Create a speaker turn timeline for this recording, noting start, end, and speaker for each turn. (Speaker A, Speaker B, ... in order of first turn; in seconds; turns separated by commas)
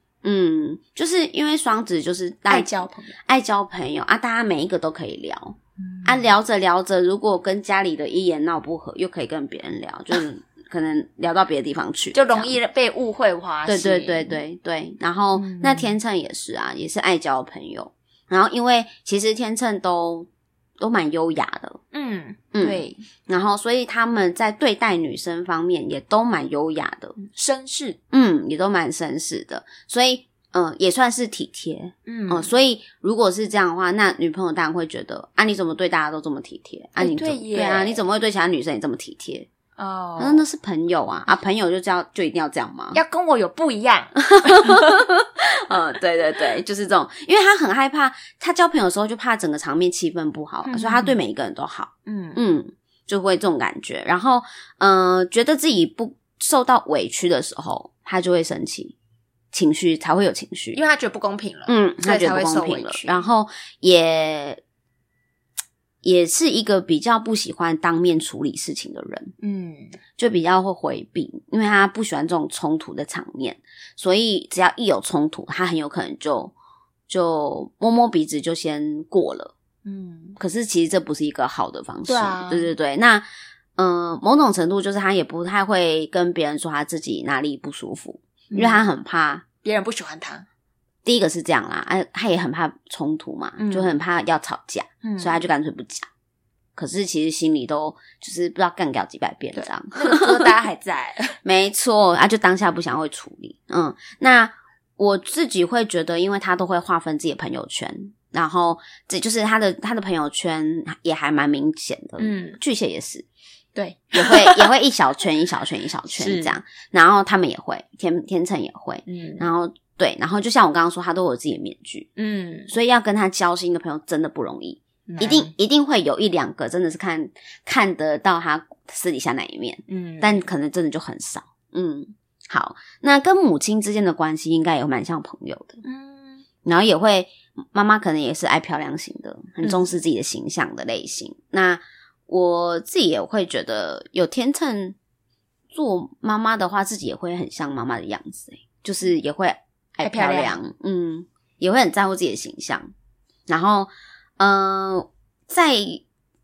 Speaker A: 0.2-2.7, Speaker B: 2.5-3.2, Speaker A: 3.2-12.6, Speaker B: 5.8-6.2, Speaker B: 12.1-14.4, Speaker A: 13.7-20.3, Speaker B: 15.3-15.9, Speaker A: 20.8-21.8, Speaker B: 21.9-23.0, Speaker A: 22.5-27.2, Speaker B: 27.2-28.0, Speaker A: 28.1-39.5, Speaker B: 32.0-32.5, Speaker B: 37.0-38.0, Speaker B: 39.8-40.4, Speaker A: 40.2-43.0, Speaker B: 42.9-45.0, Speaker A: 44.2-58.9, Speaker B: 50.6-51.1, Speaker B: 52.0-52.4, Speaker A: 59.5-60.8, Speaker B: 60.7-63.2, Speaker A: 61.7-64.6, Speaker A: 66.0-69.3, Speaker B: 69.4-70.0, Speaker A: 70.2-76.5, Speaker A: 77.1-79.5, Speaker B: 79.8-80.4, Speaker A: 80.4-89.4, Speaker B: 82.1-82.7, Speaker B: 88.5-88.8, Speaker B: 89.6-90.5, Speaker A: 91.0-96.1, Speaker B: 93.6-94.0, Speaker B: 95.0-95.4, Speaker A: 96.8-100.5, Speaker B: 99.5-101.4, Speaker A: 101.4-113.2, Speaker B: 112.2-112.6, Speaker B: 113.7-114.7, Speaker A: 114.1-122.1, Speaker B: 116.1-116.5, Speaker B: 119.1-119.5, Speaker B: 122.2-122.7, Speaker A: 122.7-135.8, Speaker B: 125.1-125.5, Speaker B: 129.9-130.4, Speaker B: 135.8-136.4, Speaker A: 136.6-144.9, Speaker A: 145.7-152.9, Speaker B: 150.0-150.6, Speaker A: 153.5-156.0